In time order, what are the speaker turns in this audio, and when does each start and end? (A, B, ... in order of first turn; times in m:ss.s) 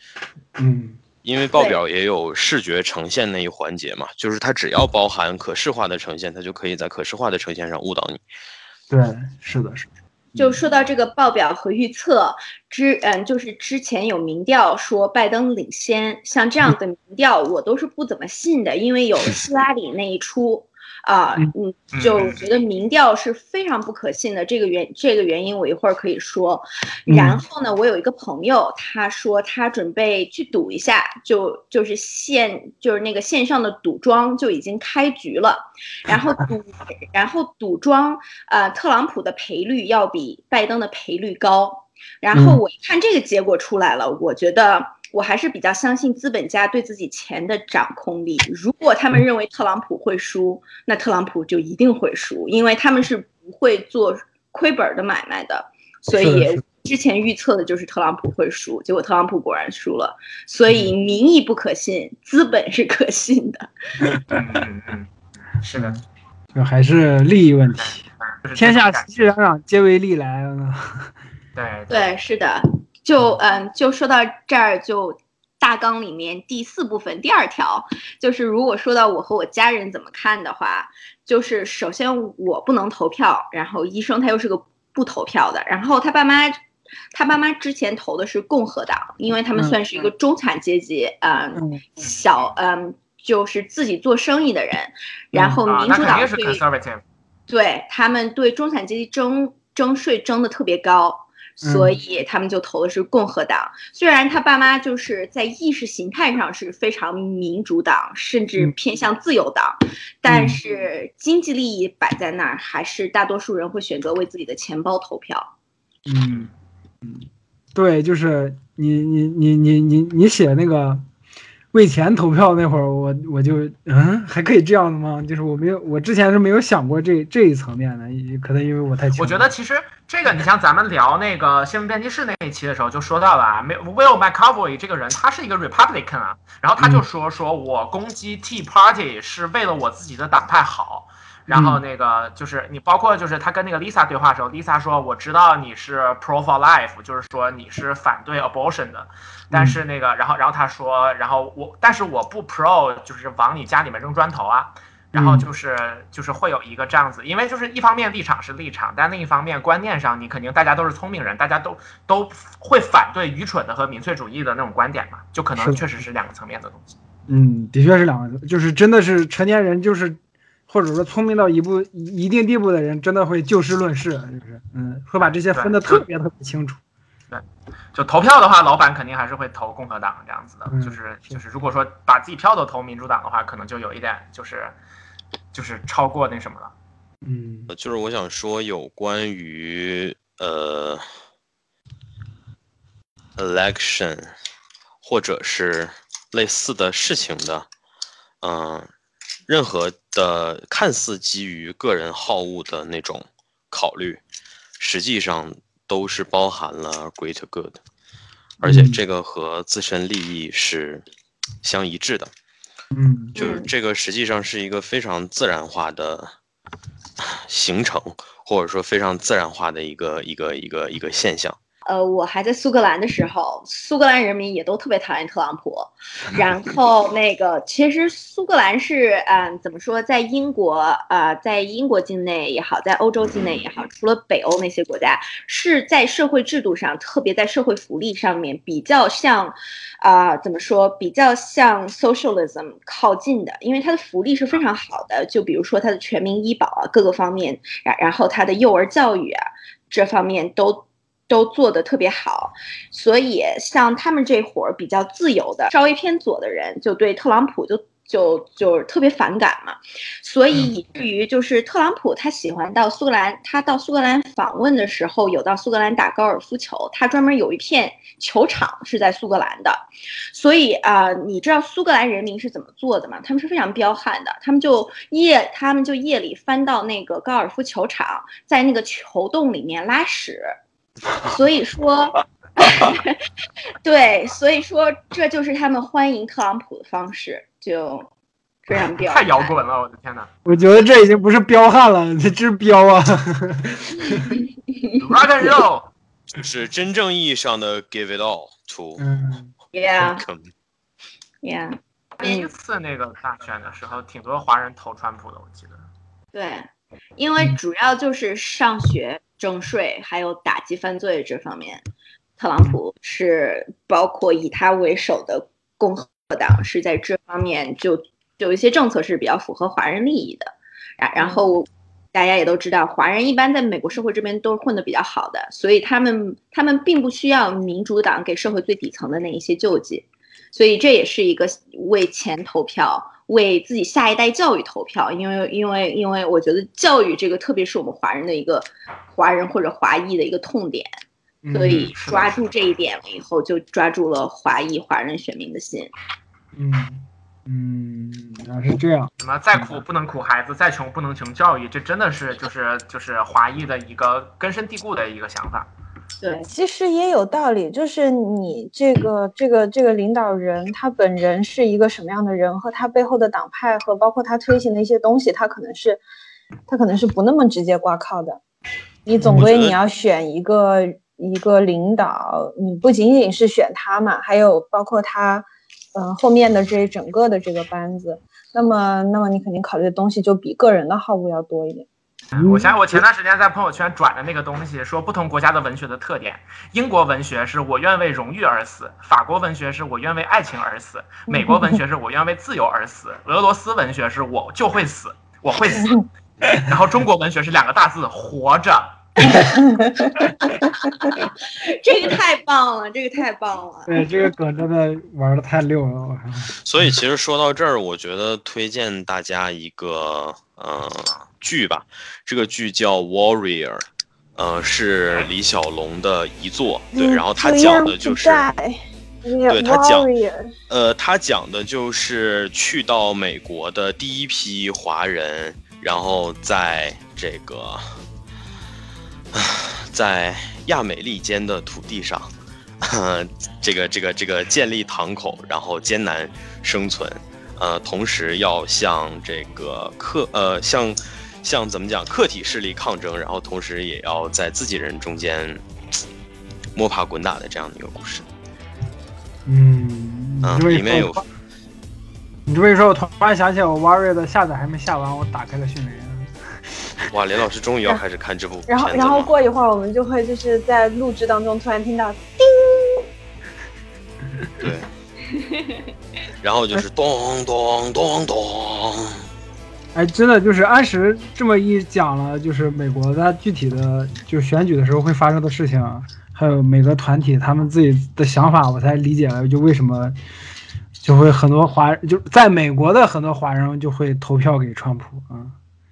0:00.6-0:01.0 A
0:01.2-0:08.2 B
0:01.5-0:01.8 C
0:08.9-0:10.6 A
0:10.4-1:03.7 C
0:21.9-0:22.4 D
0:27.1-0:27.4 A
0:36.1-0:36.4 A
0:42.3-0:42.6 A
0:56.1-0:56.6 A
1:04.3-1:05.1 D
1:05.6-1:06.0 D
1:05.7-1:06.0 A
1:06.5-1:08.0 A
1:07.8-1:09.1 D
1:08.6-1:11.1 A
1:11.6-1:12.1 D
1:11.9-1:26.6 C
1:27.1-1:36.6 C
1:31.6-1:31.8 A
1:32.0-1:32.5 D
1:35.3-1:35.6 A
1:35.6-1:37.0 D
1:37.5-1:55.5 C
1:41.6-1:41.9 A
1:50.2-1:50.6 A
1:56.1-1:56.5 A
1:57.0-2:01.0 A
2:01.7-2:09.5 A
2:09.2-2:46.9 D
2:21.5-2:21.8 A
2:29.5-2:29.8 A
2:35.1-2:35.5 A
2:47.3-2:56.8 A
2:55.2-2:56.0 D
2:57.3-3:04.8 D
3:00.7-3:01.0 A
3:05.5-3:06.7 D
3:07.2-3:07.7 A
3:07.7-3:11.0 B
3:13.4-3:14.3 B
3:15.0-3:17.7 B
3:18.4-3:18.9 B
3:19.5-3:24.2 B
3:24.8-3:27.8 B
3:28.6-3:31.0 B
3:28.6-3:29.0 A
3:31.6-3:32.3 B
3:32.9-3:33.4 A
3:33.4-3:33.7 C
3:33.4-3:36.3 B
3:37.2-3:41.6 B
3:41.8-4:40.6 C
4:41.2-4:43.2 C
4:43.8-4:48.1 C
4:48.7-4:49.6 C
4:49.0-4:50.3 D
4:50.4-4:54.4 A
4:55.0-4:55.9 D
4:56.3-4:59.0 B
4:59.0-4:59.5 A
4:59.7-5:00.2 C
5:00.0-5:00.5 B
5:01.4-5:02.5 C
5:02.2-5:05.8 D
5:06.3-5:11.8 C
5:12.4-5:40.9 C
5:21.2-5:21.4 E
5:41.4-5:41.9 A
5:41.5-5:45.9 C
5:41.7-5:42.4 D
5:46.5-5:49.8 A
5:49.2-5:55.7 D
5:56.2-5:56.5 C
5:56.5-6:06.0 E
6:06.7-6:08.4 E
6:09.0-6:21.9 E
6:09.2-6:09.5 A
6:09.2-6:09.8 B
6:22.3-6:39.4 D
6:22.4-6:22.8 A
6:41.1-6:44.1 C
6:43.9-6:46.6 A
6:46.6-6:53.8 B
6:54.4-6:58.5 B
6:56.9-7:00.5 E
6:59.5-7:00.1 B
7:00.7-7:08.0 B
7:09.3-7:25.6 B
7:26.7-7:28.3 B
7:29.4-7:31.2 A
7:30.4-7:31.2 B
7:32.4-7:36.8 A
7:37.1-7:39.3 B
7:38.7-7:42.9 E
7:44.6-7:44.9 B
7:46.4-7:49.2 B
7:49.9-8:00.2 A
8:01.0-8:05.6 A